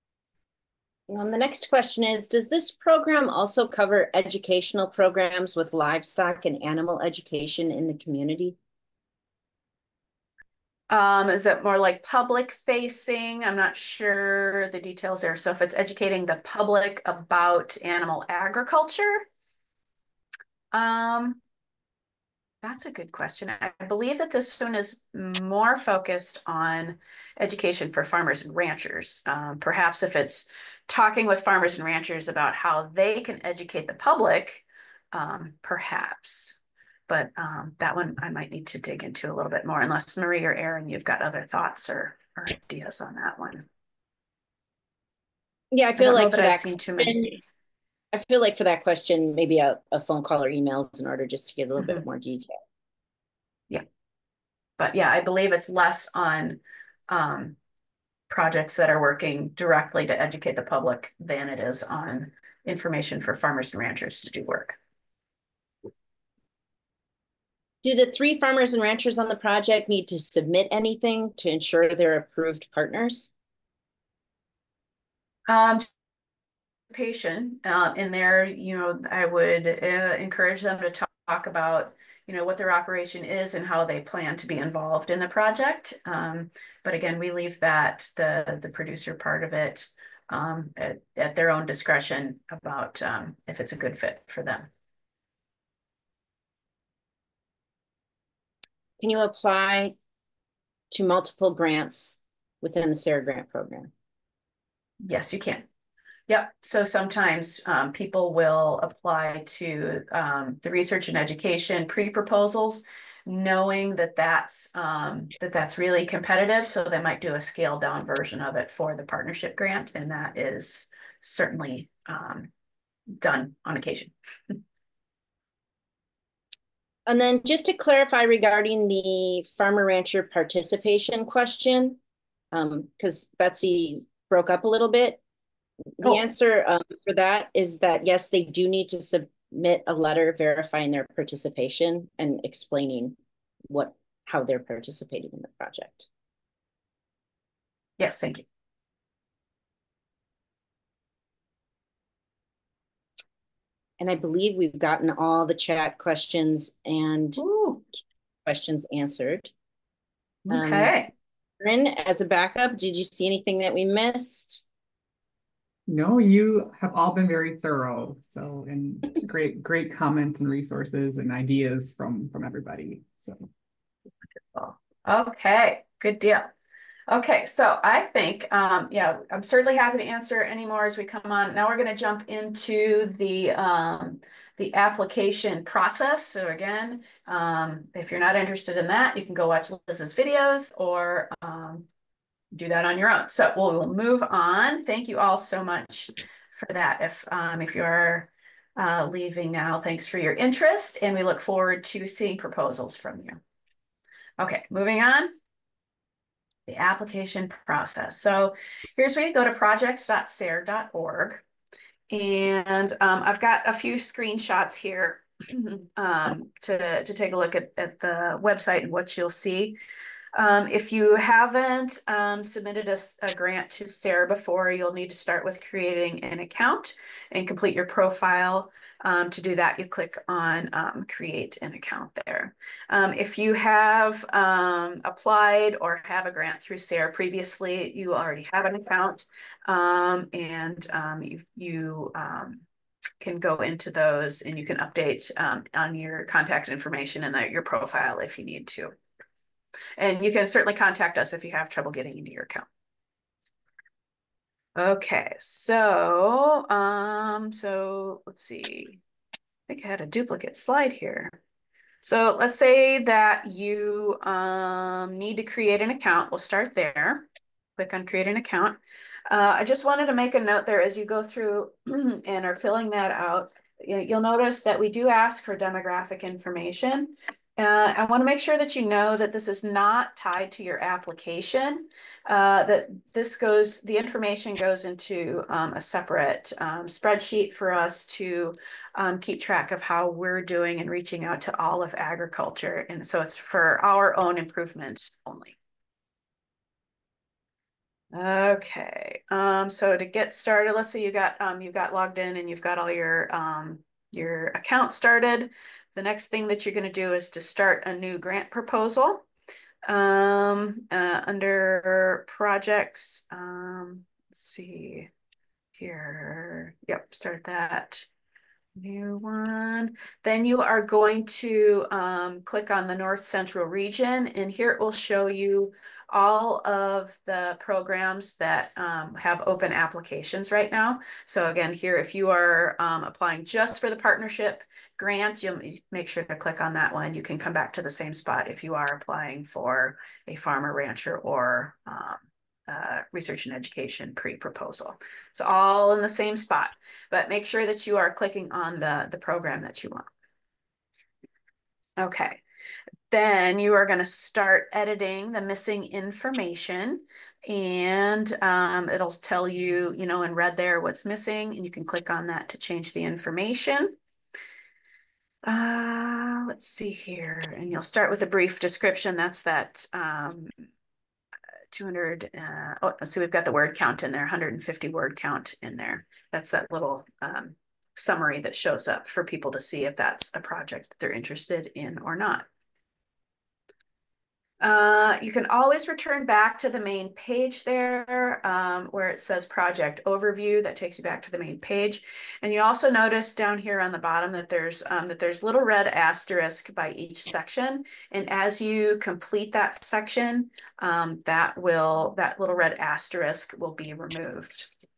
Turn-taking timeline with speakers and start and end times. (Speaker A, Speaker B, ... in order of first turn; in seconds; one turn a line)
Speaker A: 1.1-8.6
Speaker B: 10.9-19.3
Speaker B: 20.7-21.4
Speaker B: 22.6-43.7
Speaker A: 45.7-47.4
Speaker B: 46.0-47.2
Speaker A: 48.1-52.5
Speaker B: 54.8-57.5
Speaker B: 58.3-64.8
Speaker A: 67.8-73.3
Speaker B: 75.5-75.8
Speaker B: 76.9-94.7
Speaker A: 99.0-99.9
Speaker A: 100.9-103.9
Speaker B: 105.0-105.7
Speaker B: 106.3-122.5
Speaker B: 123.2-124.6
Speaker A: 127.1-132.0
Speaker A: 132.5-135.2
Speaker A: 136.0-143.2
Speaker A: 143.7-146.1
Speaker B: 148.0-148.4
Speaker A: 154.0-157.4
Speaker B: 157.4-157.8
Speaker A: 158.4-159.5
Speaker B: 160.4-161.1
Speaker A: 160.5-160.9
Speaker A: 161.6-164.6
Speaker C: 165.9-173.5
Speaker B: 174.5-176.5
Speaker B: 177.1-191.8
Speaker B: 192.5-203.4
Speaker B: 204.4-205.3
Speaker B: 206.7-211.4
Speaker B: 212.1-219.8
Speaker B: 220.3-242.6
Speaker B: 243.2-248.9
Speaker B: 250.0-252.7
Speaker B: 254.8-259.0
Speaker B: 259.7-261.4
Speaker B: 262.0-267.2
Speaker B: 267.8-295.6
Speaker B: 298.1-309.2
Speaker B: 309.9-315.1
Speaker B: 315.8-318.1
Speaker B: 318.8-350.1
Speaker B: 352.0-352.4
Speaker B: 353.1-364.0
Speaker B: 365.5-370.5
Speaker B: 371.7-382.5
Speaker B: 384.6-404.7